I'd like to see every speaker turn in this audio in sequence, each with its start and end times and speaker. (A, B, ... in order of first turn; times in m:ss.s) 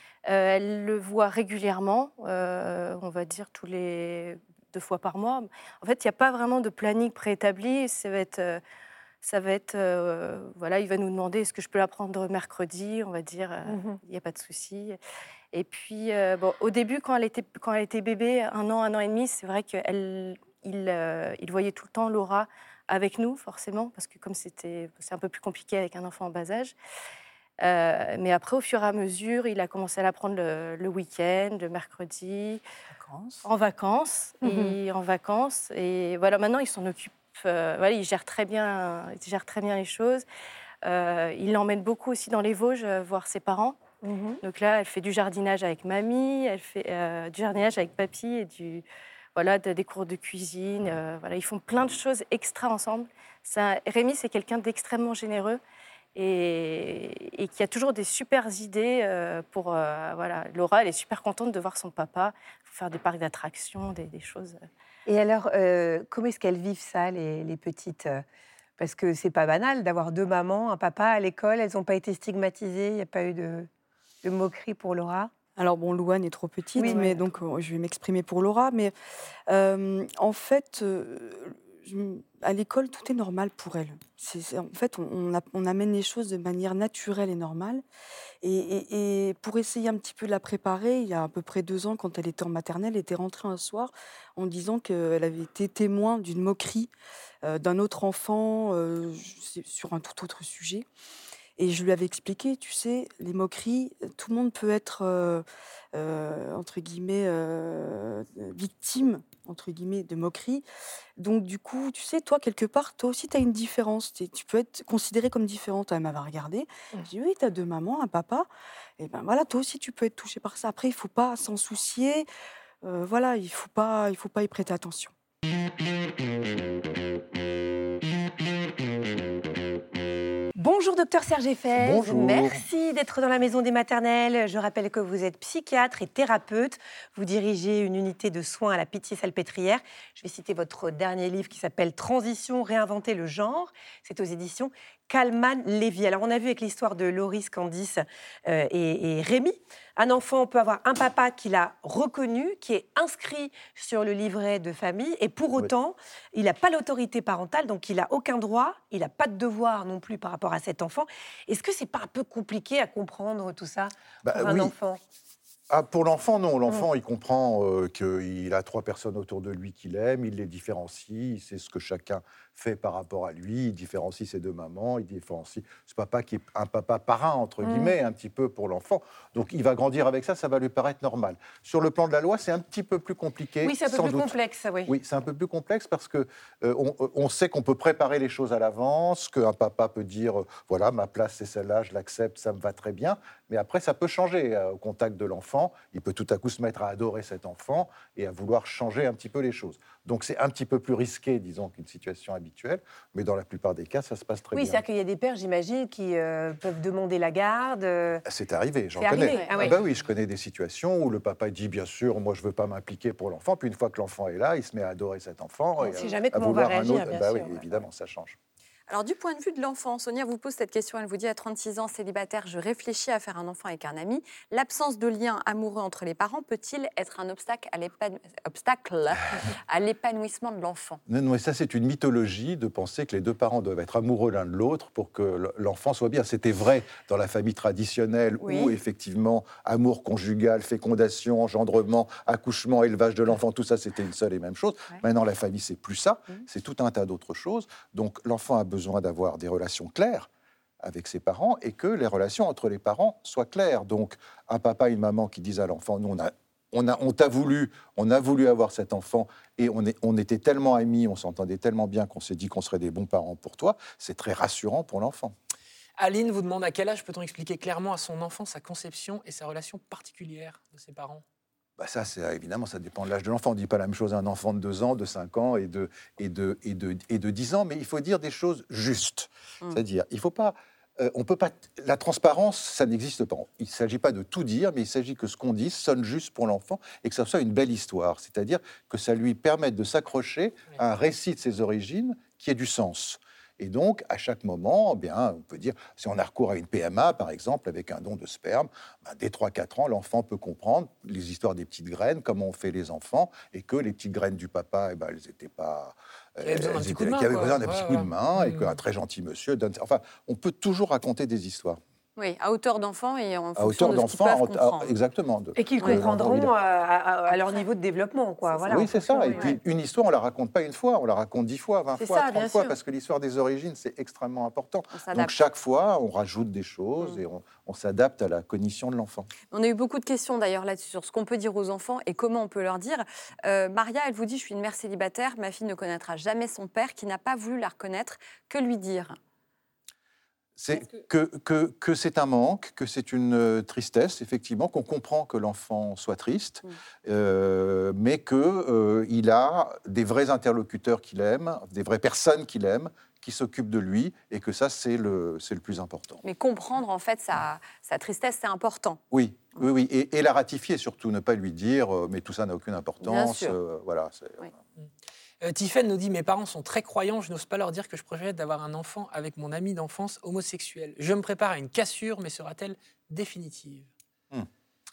0:00.2-0:08.6 A
0:09.2-0:15.0 A
0:13.6-0:14.0 B
0:15.5-0:26.7 A
0:27.6-0:32.6 A
0:33.4-0:40.2 A
0:34.4-0:34.7 B
0:40.8-0:43.8 A
0:44.0-0:44.4 B
0:44.4-0:48.8 A
0:49.3-0:55.6 A
0:56.1-1:04.6 A
1:05.0-1:08.2 B
1:08.8-1:13.7 B
1:14.2-1:15.3 B
1:15.6-1:18.9 C
1:16.8-1:17.2 B
1:19.5-1:27.8 C
1:28.4-1:36.9 C
1:37.4-1:40.8 C
1:41.6-1:50.6 C
1:51.2-1:58.5 C
1:59.0-2:02.2 C
2:02.8-2:05.1 C
2:10.6-2:45.0 B
2:11.7-2:12.6 D
2:44.2-2:44.7 D
2:45.7-3:24.8 D
2:57.6-2:58.0 B
3:03.6-3:04.9 B
3:24.5-3:28.2 B
3:28.2-3:38.4 D
3:28.9-3:29.8 B
3:29.2-3:29.6 E
3:35.8-3:37.8 B
3:38.9-3:51.0 E
3:51.1-4:10.3 D
3:58.4-3:58.8 B
4:10.8-4:25.3 D
4:26.0-4:31.2 F
4:31.8-5:11.8 D
5:06.4-5:08.8 F
5:12.2-5:14.9 E
5:13.6-5:16.5 D
5:15.6-5:19.6 B
5:17.3-5:17.6 E
5:18.7-5:29.3 D
5:22.0-5:22.8 B
5:24.9-5:25.3 E
5:29.5-5:39.2 E
5:40.6-5:56.2 D
5:56.2-5:59.0 E
5:59.1-6:04.5 D
6:03.0-6:03.6 E
6:05.4-6:13.9 F